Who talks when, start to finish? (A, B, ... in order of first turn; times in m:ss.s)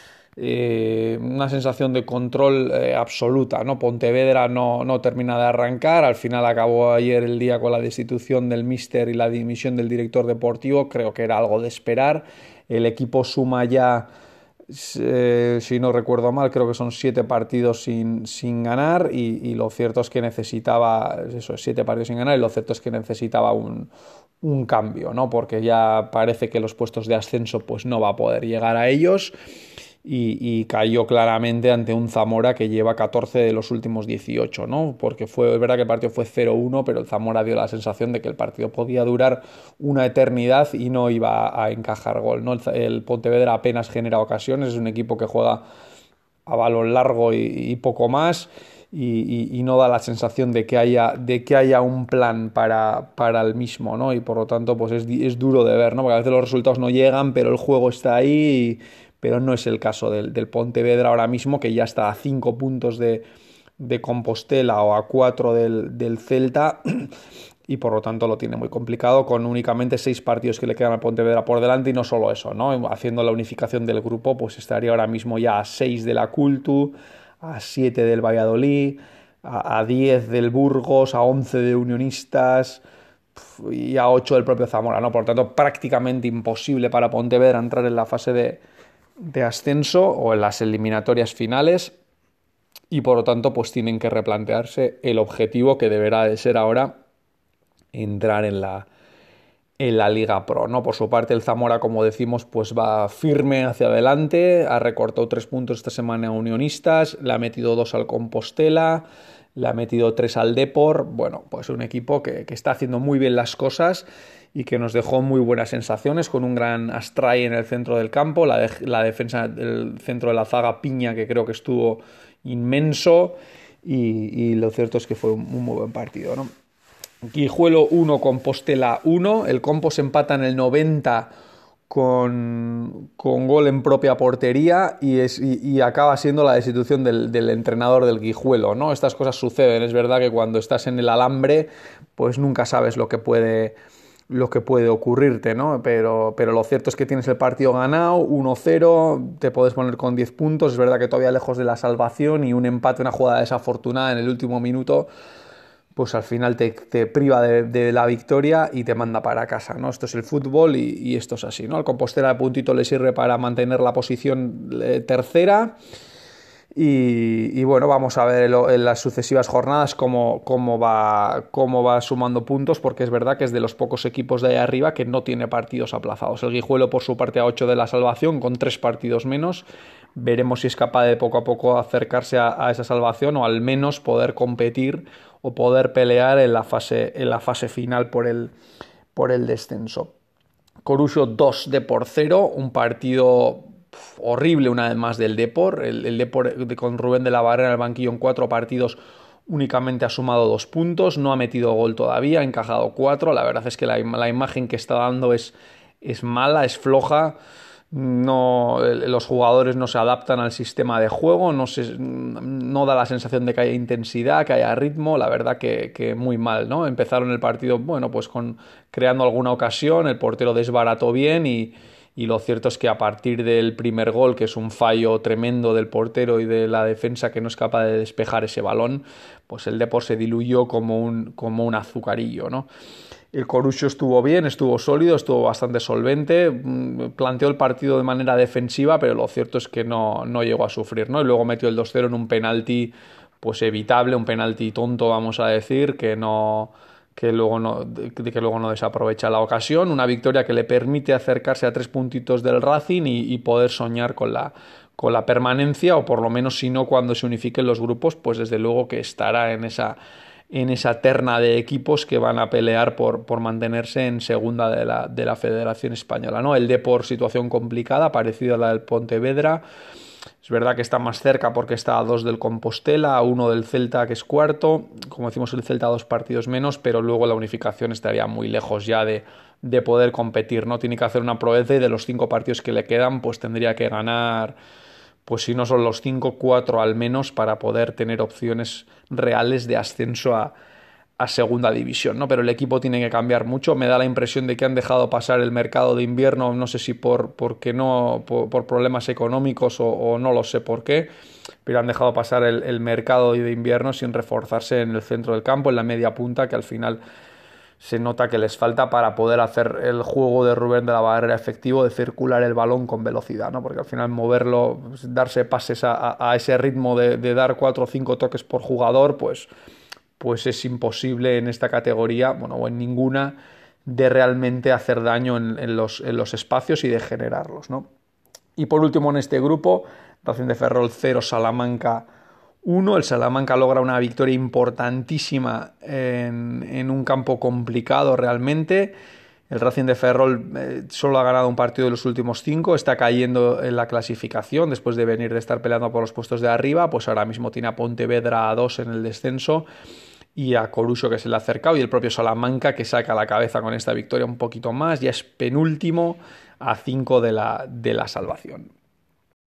0:00.4-0:14.1 A
0:14.7-0:23.9 A
0:24.4-0:29.3 A
0:30.0-0:45.6 A
0:46.5-1:03.2 A
1:03.8-1:07.1 A
1:07.7-1:22.8 A
1:23.6-1:28.6 A
1:29.3-1:32.0 A
1:32.9-1:37.0 A
1:37.9-1:38.9 A
1:39.8-2:06.5 A
2:07.3-2:11.3 A
2:11.9-2:23.8 A
2:24.3-2:35.1 A
2:36.0-2:45.8 A
2:46.8-3:08.5 A
3:09.2-3:10.2 A
3:10.8-3:27.4 A
3:27.9-3:52.7 A
3:53.3-4:20.0 A
4:20.5-4:29.6 A
4:30.4-4:44.6 A
4:45.3-4:50.5 A
4:51.2-5:01.1 A
5:01.6-5:07.0 A
5:07.8-5:19.5 A
5:20.2-5:27.9 A
5:28.6-5:32.1 A
5:32.6-5:39.0 A
5:39.5-5:49.7 A
5:50.4-5:58.7 A